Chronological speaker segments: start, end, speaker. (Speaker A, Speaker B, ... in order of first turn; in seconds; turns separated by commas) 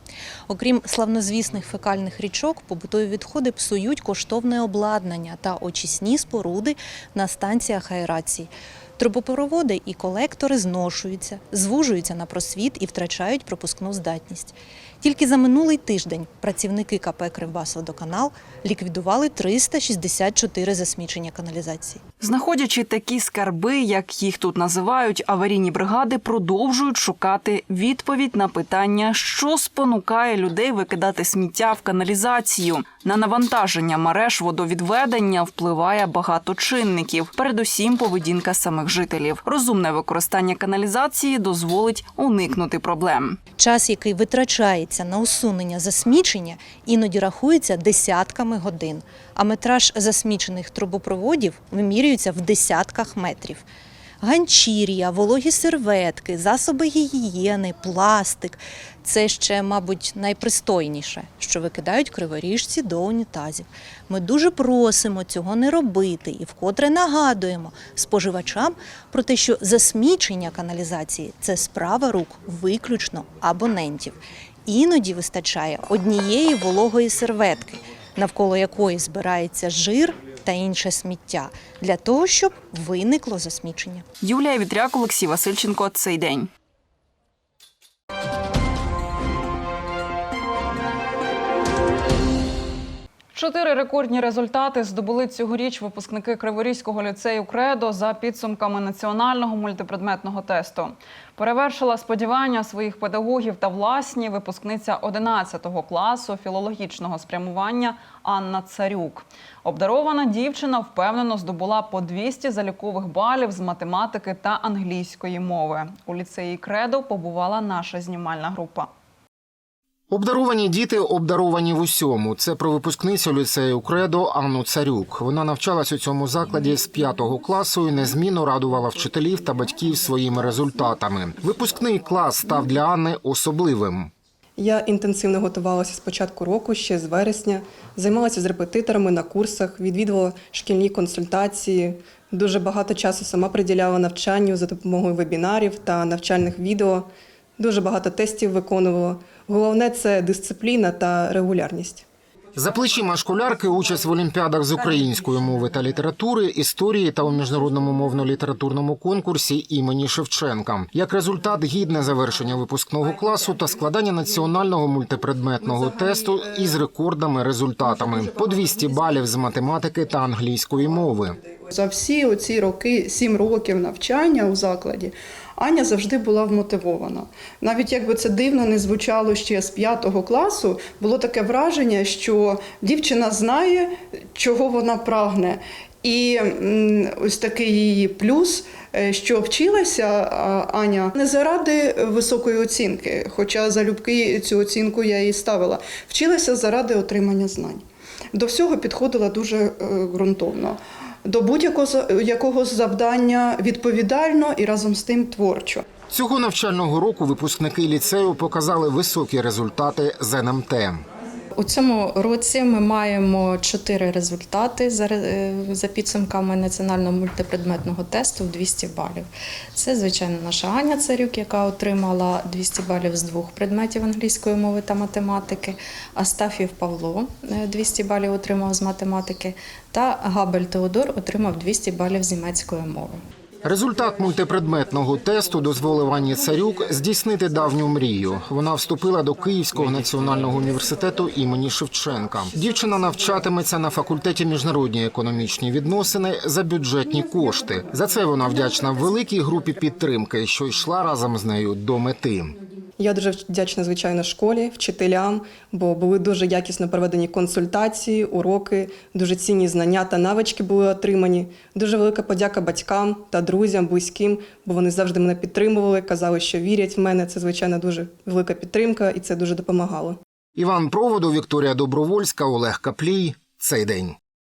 Speaker A: 0.5-22.0, Speaker B: 22.2-43.4, Speaker A: 43.6-53.6, Speaker A: 54.2-84.0, Speaker B: 84.2-86.5, Speaker B: 93.3-118.9, Speaker C: 120.1-134.1, Speaker D: 134.6-152.1, Speaker C: 152.6-171.4, Speaker E: 171.7-197.8, Speaker E: 198.3-205.8, Speaker C: 206.1-211.0, Speaker F: 211.6-233.2, Speaker C: 233.6-252.6, Speaker D: 253.0-270.2, Speaker C: 270.6-274.2